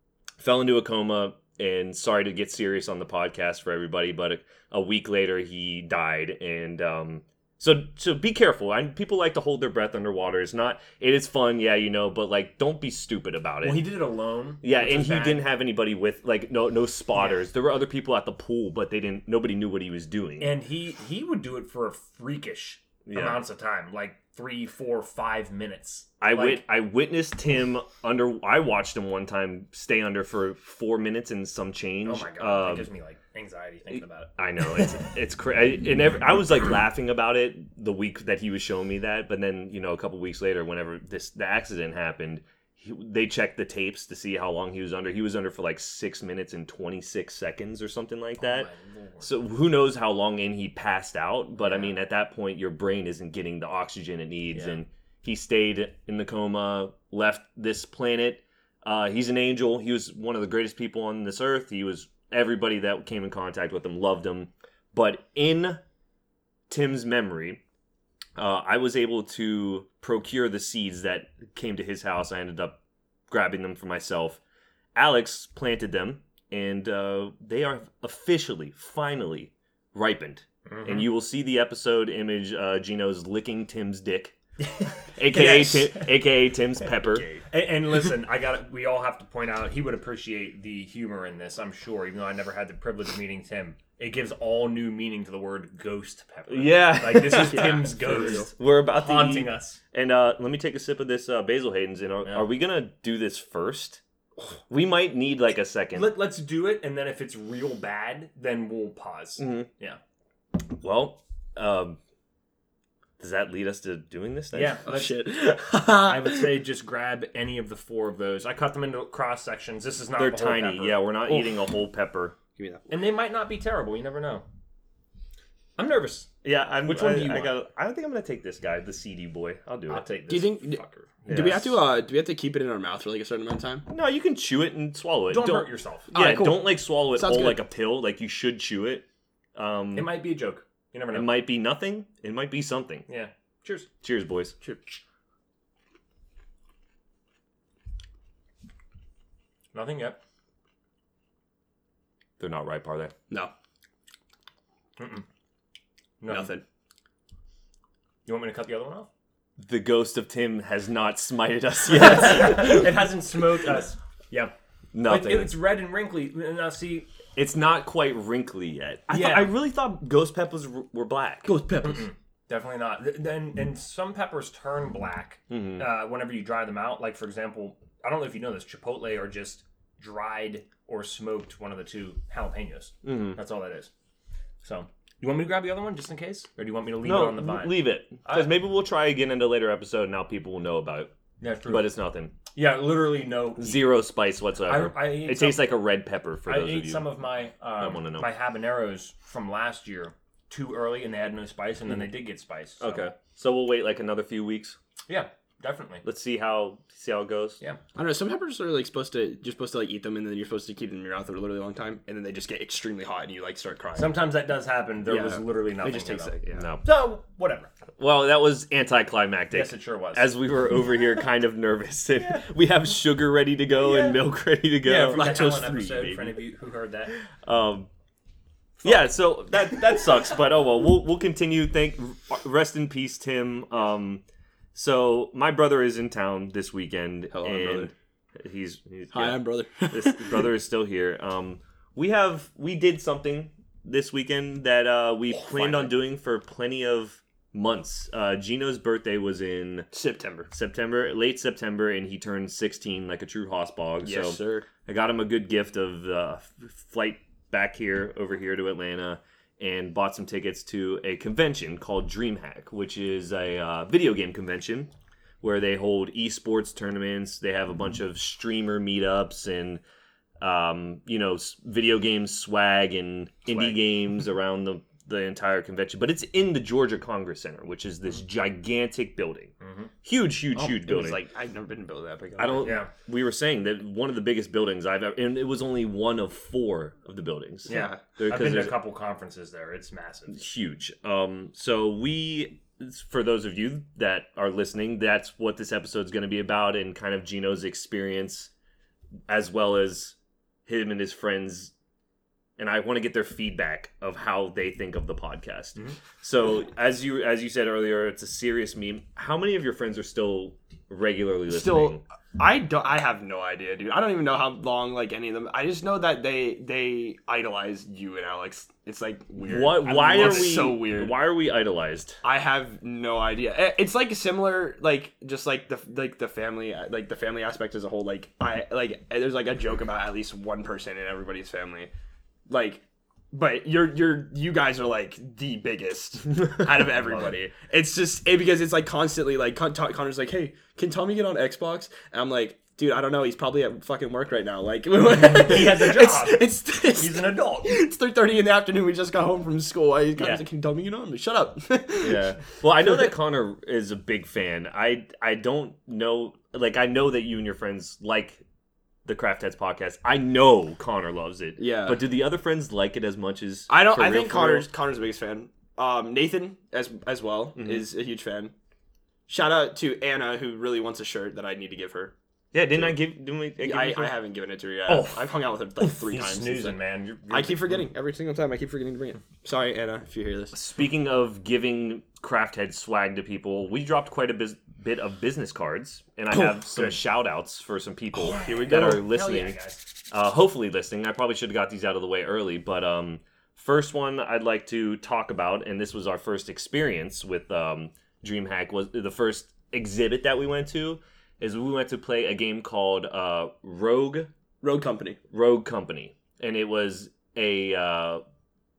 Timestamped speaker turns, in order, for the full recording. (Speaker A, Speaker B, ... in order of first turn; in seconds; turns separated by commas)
Speaker A: 0.4-13.8, Speaker B: 13.6-15.4, Speaker A: 14.6-20.6, Speaker B: 17.1-17.4, Speaker B: 20.4-26.6, Speaker A: 23.1-23.4, Speaker A: 26.2-32.9, Speaker B: 32.0-34.3, Speaker A: 33.9-48.7, Speaker B: 48.4-49.3, Speaker A: 49.2-65.8, Speaker B: 51.6-52.0, Speaker B: 54.5-54.8, Speaker A: 66.7-67.6, Speaker A: 68.4-72.8, Speaker A: 73.3-74.4, Speaker A: 75.0-84.4, Speaker B: 80.7-81.1, Speaker B: 84.6-86.0, Speaker A: 85.2-87.3, Speaker C: 85.5-85.8, Speaker B: 87.4-99.8, Speaker A: 96.5-104.0, Speaker C: 97.3-98.5, Speaker A: 104.7-106.2, Speaker B: 105.9-110.0, Speaker A: 109.4-109.7, Speaker A: 110.7-112.0, Speaker A: 113.2-114.8, Speaker B: 114.5-121.0, Speaker C: 114.8-116.5, Speaker A: 120.2-122.4, Speaker C: 121.3-121.5, Speaker C: 122.6-122.9, Speaker B: 122.9-124.5, Speaker B: 125.8-126.3, Speaker A: 126.4-130.1, Speaker B: 126.8-127.5, Speaker B: 129.9-131.2, Speaker C: 130.3-133.8, Speaker A: 131.2-131.8, Speaker A: 133.9-140.2, Speaker B: 135.3-136.1, Speaker C: 136.1-137.6, Speaker B: 139.9-141.4, Speaker A: 141.1-143.1, Speaker B: 143.1-143.9, Speaker A: 144.0-144.6, Speaker B: 149.7-150.2, Speaker A: 152.4-153.1, Speaker B: 155.0-155.2, Speaker B: 156.2-156.5, Speaker C: 156.3-156.6, Speaker B: 158.3-159.1, Speaker A: 159.6-163.1, Speaker B: 161.9-164.5, Speaker A: 164.9-165.6, Speaker B: 165.1-167.1, Speaker A: 167.4-171.5, Speaker B: 169.1-169.5, Speaker C: 171.4-172.1, Speaker B: 171.8-183.9, Speaker A: 175.5-175.9, Speaker A: 183.0-183.4, Speaker B: 184.6-188.5, Speaker A: 187.0-191.1, Speaker B: 191.4-191.9, Speaker A: 191.7-192.3, Speaker B: 192.5-193.9, Speaker A: 193.6-197.1, Speaker B: 194.7-195.7, Speaker B: 196.5-203.1, Speaker A: 197.8-198.3, Speaker A: 202.8-204.8, Speaker B: 205.1-206.1, Speaker A: 206.1-207.6, Speaker C: 208.0-214.2, Speaker B: 213.9-217.7, Speaker C: 215.1-216.7, Speaker A: 216.5-216.8, Speaker A: 218.0-225.3, Speaker B: 219.5-220.3, Speaker B: 224.8-227.2, Speaker C: 225.1-226.3, Speaker A: 227.3-227.9, Speaker A: 228.8-234.2, Speaker A: 234.7-249.9, Speaker C: 237.3-237.9, Speaker C: 239.1-240.5, Speaker C: 245.3-245.9, Speaker C: 249.9-250.5, Speaker A: 250.5-264.9, Speaker C: 254.0-254.7, Speaker A: 265.4-269.8, Speaker A: 270.4-279.5, Speaker B: 279.6-279.9, Speaker A: 280.0-281.2, Speaker C: 280.5-282.8, Speaker A: 282.4-288.8, Speaker B: 282.6-282.9, Speaker B: 287.7-290.4, Speaker C: 287.7-288.0, Speaker A: 290.3-298.5, Speaker A: 299.3-300.1, Speaker A: 300.7-301.7, Speaker A: 302.6-312.0, Speaker C: 311.5-321.2, Speaker A: 319.5-322.2, Speaker B: 320.1-320.4, Speaker C: 322.2-331.9, Speaker C: 332.5-353.1, Speaker B: 337.0-337.3, Speaker B: 345.1-347.8, Speaker B: 350.2-350.4, Speaker A: 352.0-358.4, Speaker A: 359.1-364.7, Speaker C: 361.6-362.0, Speaker C: 363.7-368.5, Speaker A: 367.6-367.8, Speaker C: 369.3-372.1, Speaker A: 372.5-374.1, Speaker C: 372.7-373.0, Speaker C: 373.6-376.8, Speaker B: 374.9-375.1, Speaker B: 375.8-377.8, Speaker C: 377.3-380.6, Speaker A: 380.5-404.3, Speaker C: 386.3-387.0, Speaker C: 388.2-389.1, Speaker B: 388.2-389.8, Speaker C: 404.6-405.2, Speaker A: 405.3-408.2